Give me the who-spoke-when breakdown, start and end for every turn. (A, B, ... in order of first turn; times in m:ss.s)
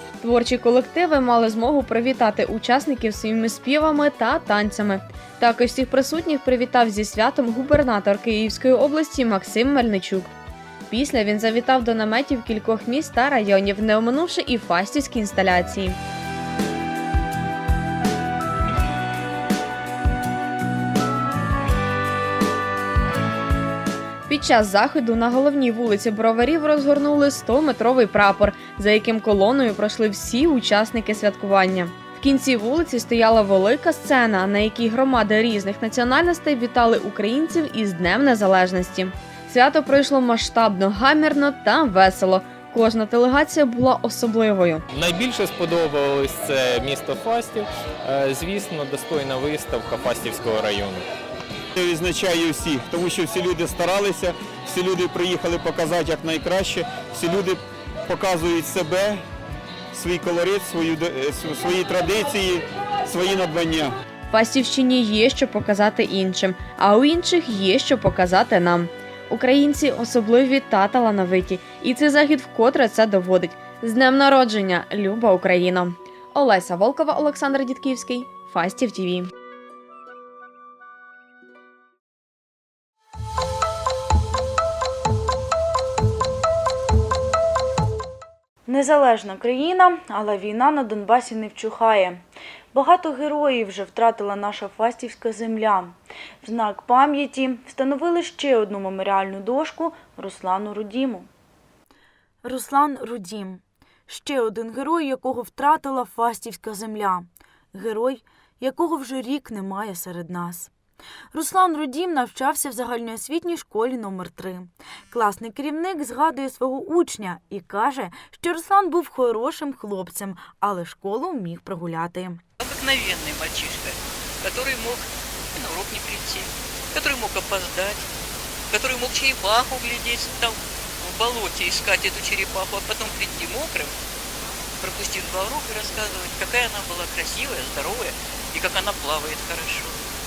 0:00.2-0:10.3 A
0:10.9-0:16.0 A
0:24.3-0:44.8 A
0:44.9-0:51.0 B
0:51.8-0:59.2 C
0:59.9-1:03.9 C
1:04.3-1:19.3 A
1:28.7-1:32.2 D
1:32.7-1:41.3 D
1:42.4-1:50.7 D
1:51.3-2:02.4 D
2:02.6-2:08.0 E
2:08.7-2:13.9 E
2:14.8-2:20.0 E